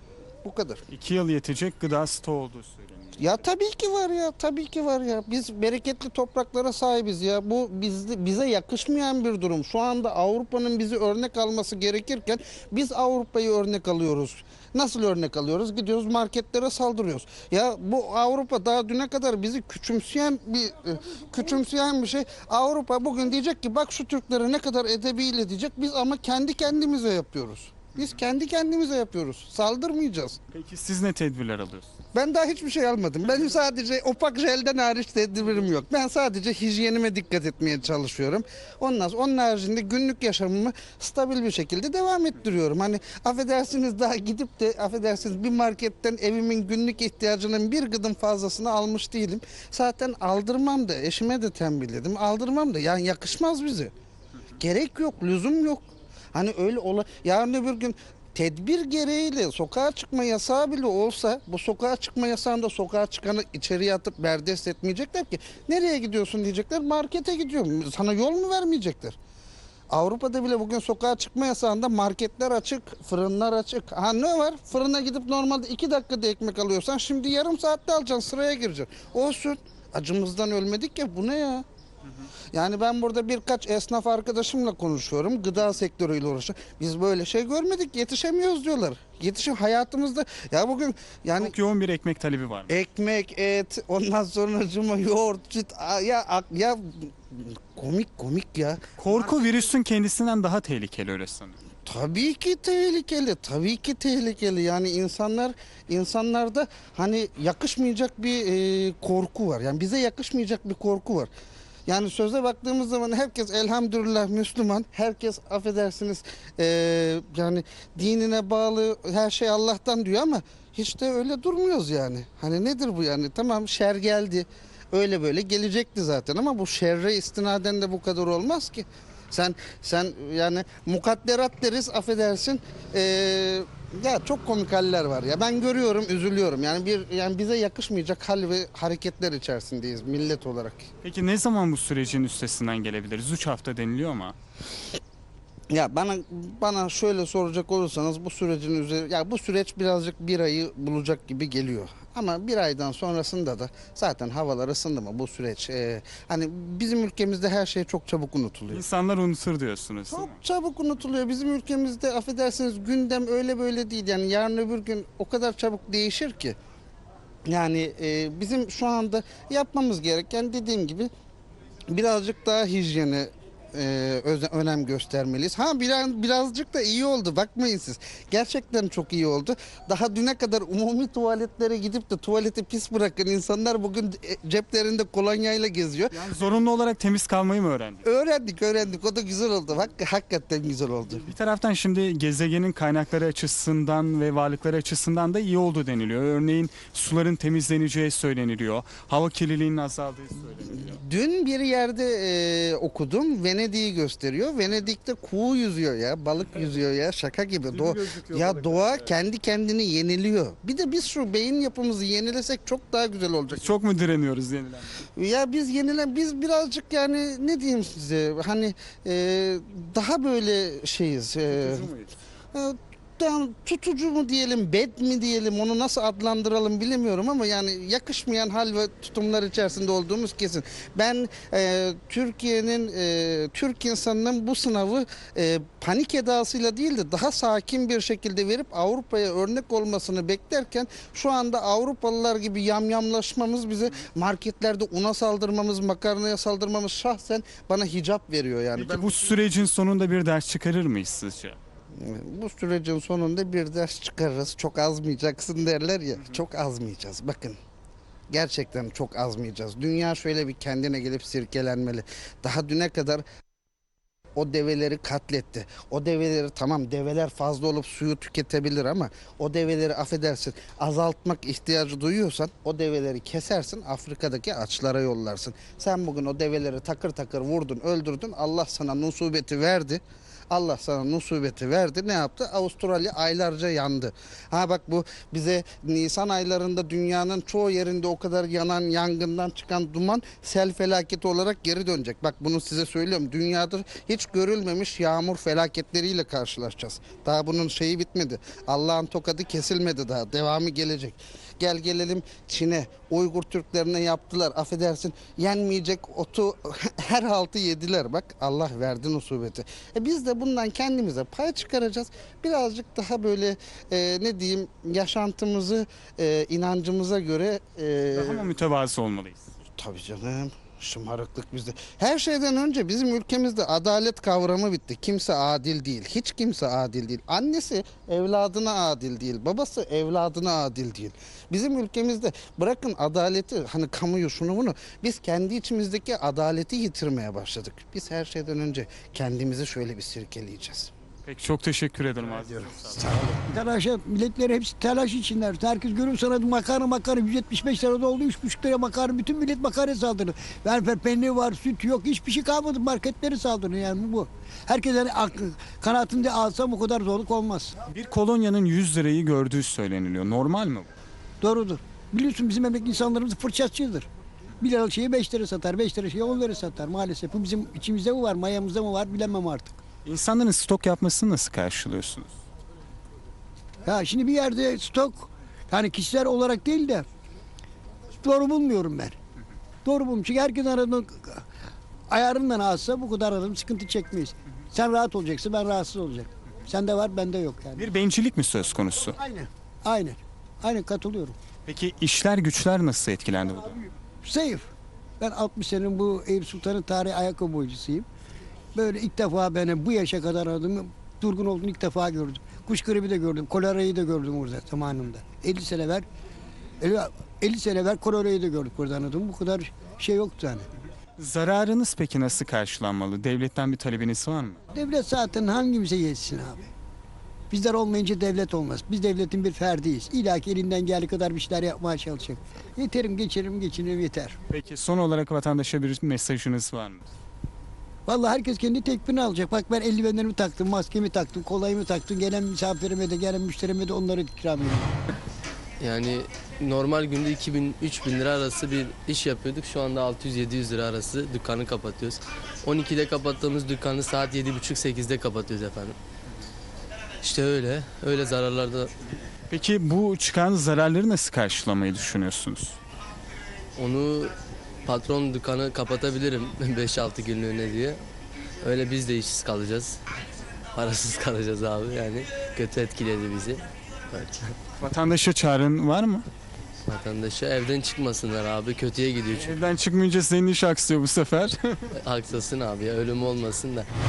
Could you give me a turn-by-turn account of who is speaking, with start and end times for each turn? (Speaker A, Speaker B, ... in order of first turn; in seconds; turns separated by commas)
Speaker A: 0.4-0.8, Speaker B: 0.9-3.3, Speaker A: 3.2-30.4, Speaker B: 30.5-31.9, Speaker A: 32.1-53.9, Speaker A: 54.6-69.2, Speaker A: 69.9-81.7, Speaker A: 82.5-91.5, Speaker B: 91.4-92.7, Speaker A: 92.7-99.4, Speaker B: 99.0-101.5, Speaker A: 101.8-111.3, Speaker A: 111.9-140.9, Speaker B: 141.0-144.3, Speaker A: 145.7-158.8, Speaker B: 158.7-160.4, Speaker A: 160.1-166.6, Speaker A: 167.4-171.1, Speaker A: 171.9-186.2, Speaker B: 186.1-188.0, Speaker A: 188.0-191.2, Speaker B: 191.2-201.0, Speaker A: 200.7-213.7, Speaker B: 207.7-209.1, Speaker B: 213.5-215.0, Speaker A: 215.2-221.9, Speaker B: 221.5-222.1, Speaker A: 222.5-249.2, Speaker B: 248.7-251.6, Speaker A: 251.9-257.6, Speaker A: 258.3-263.2, Speaker A: 264.3-318.5, Speaker B: 318.1-319.5, Speaker A: 319.8-340.9, Speaker B: 341.2-343.1, Speaker A: 342.6-343.5, Speaker C: 343.5-357.7, Speaker B: 357.9-360.9, Speaker C: 361.4-364.1, Speaker C: 364.6-369.8, Speaker B: 370.0-372.4, Speaker C: 373.8-377.1, Speaker C: 378.2-379.1, Speaker C: 379.8-381.4, Speaker C: 382.1-387.9, Speaker B: 387.8-389.2, Speaker C: 389.2-391.4, Speaker B: 391.6-393.8, Speaker C: 394.2-394.7, Speaker C: 395.2-398.1, Speaker C: 398.7-406.1, Speaker C: 406.8-410.6, Speaker B: 411.2-414.6, Speaker C: 414.7-416.6, Speaker C: 417.5-424.4, Speaker B: 424.5-427.1, Speaker C: 428.1-434.9, Speaker D: 435.8-446.0, Speaker D: 447.2-448.9, Speaker B: 449.5-452.8, Speaker D: 453.8-458.0, Speaker D: 458.6-460.0, Speaker D: 460.7-464.6, Speaker B: 464.8-466.2, Speaker D: 466.9-469.6, Speaker B: 469.3-471.9, Speaker D: 471.9-473.9